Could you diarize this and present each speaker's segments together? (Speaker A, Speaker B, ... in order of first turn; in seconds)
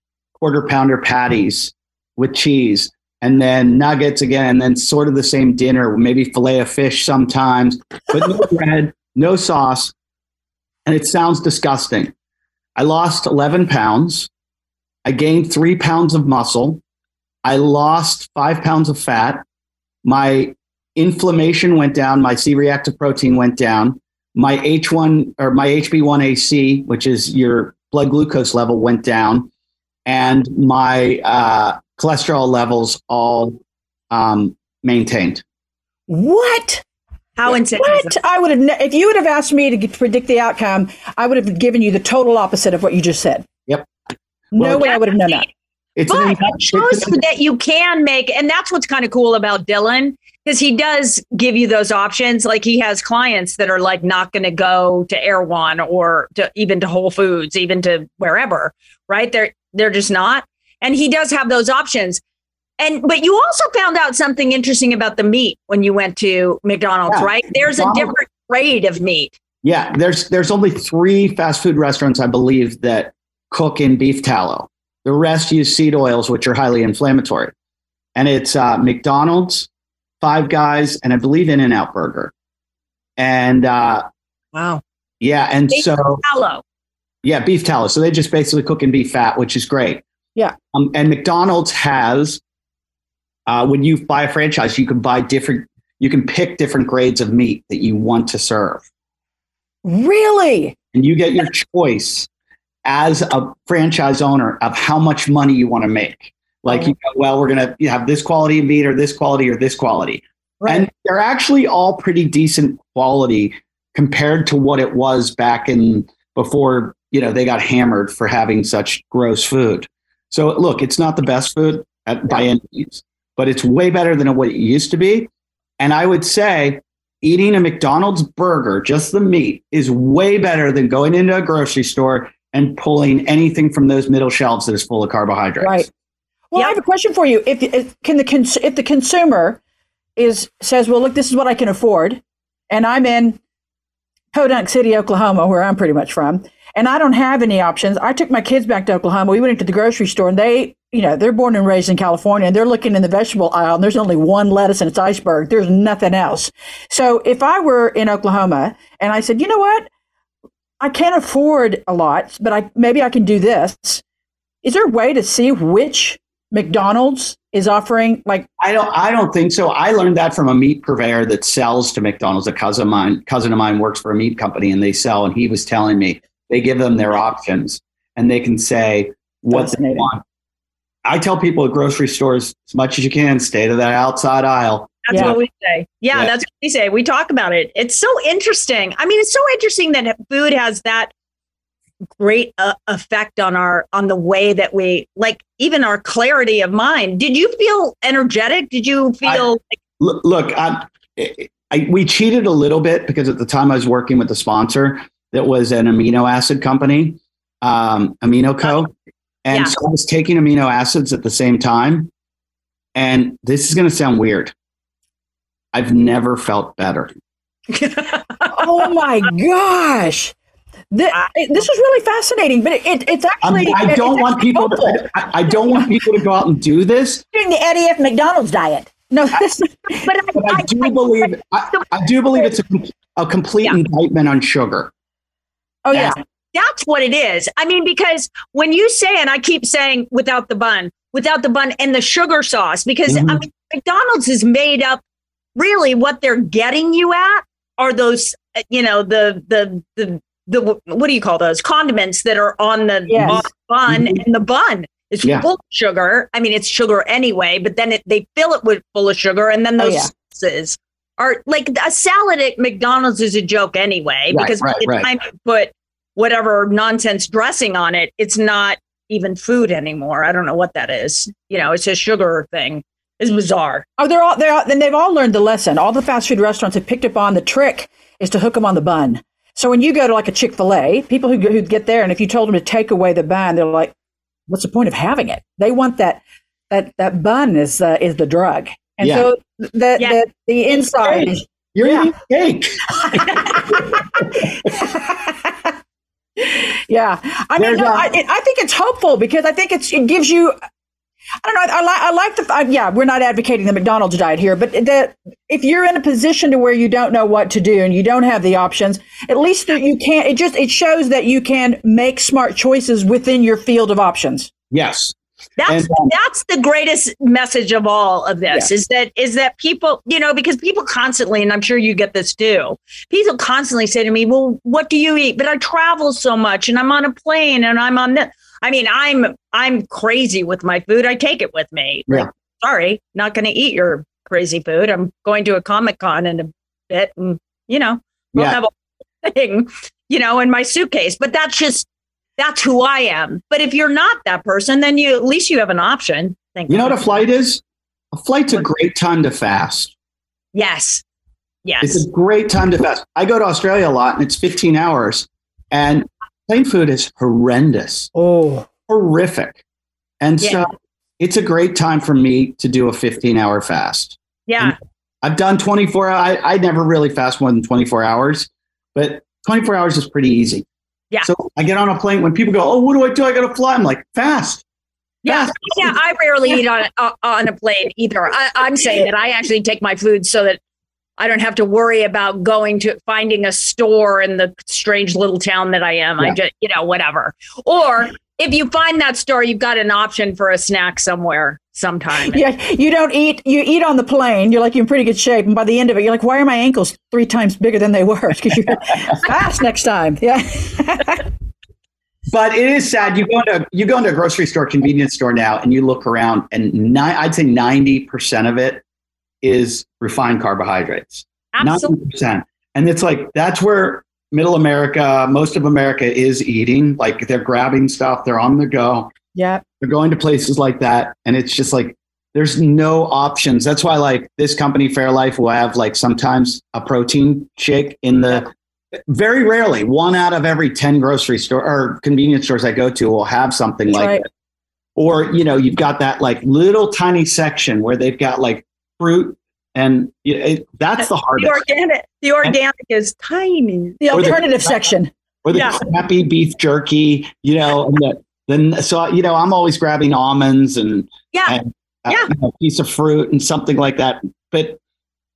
Speaker A: 0.4-9.9, 10.9-12.1, 12.8-14.3, 15.1-16.8, 17.4-19.4, 20.0-29.5, 30.1-33.6, 34.1-35.4, 44.6-44.9, 46.0-47.2, 67.1-68.1, 69.6-77.5, 78.2-79.7, 80.2-82.3, 83.2-84.0, 85.2-86.2, 87.2-90.0, 90.7-92.4, 93.5-98.8, 100.9-102.3, 102.8-135.9, 168.6-180.2, 181.1-185.4, 200.0-208.9, 209.4-212.1, 213.0-214.5, 215.7-217.1, 223.4-227.2, 230.3-234.9, 243.1-243.4, 253.2-254.2, 264.3-265.1, 289.0-289.3, 291.0-294.5, 297.6-298.1, 314.7-315.1, 315.7-316.1, 346.7-347.6, 348.1-349.9, 351.8-358.1, 358.9-359.6, 360.2-370.7, 371.2-374.6, 375.3-375.8, 402.3-408.8, 409.4-419.1, 419.8-428.5, 429.1-434.2, 435.0-441.6, 444.1-444.8, 445.4-454.8
Speaker B: 36.1-36.8, 37.7-43.5, 44.5-45.5, 99.8-100.8, 135.6-135.9, 136.5-139.6, 140.2-143.4, 144.3-159.9, 160.8-164.0, 164.6-168.5, 179.5-180.1, 218.5-220.4, 220.9-225.9, 227.3-230.1, 235.8-236.2, 253.1-253.4, 259.8-260.1, 274.0-283.9, 284.5-292.1, 293.1-295.8, 296.4-300.6, 301.4-314.5, 358.1-358.7, 392.3-401.3, 419.4-419.6, 433.9-434.2, 444.0-445.1
Speaker C: 37.4-38.2, 44.8-45.5, 46.1-62.2, 62.8-69.4, 84.5-84.8, 85.7-86.6, 185.1-191.1, 192.2-199.6, 217.7-218.7, 230.0-231.0, 236.5-245.0, 245.6-273.9, 315.6-338.7, 339.2-347.2, 350.5-351.0, 351.6-352.1, 360.4-360.7, 364.5-364.8, 375.2-380.6, 381.2-392.4, 411.6-412.0, 441.4-444.1, 445.5-445.8, 451.3-452.3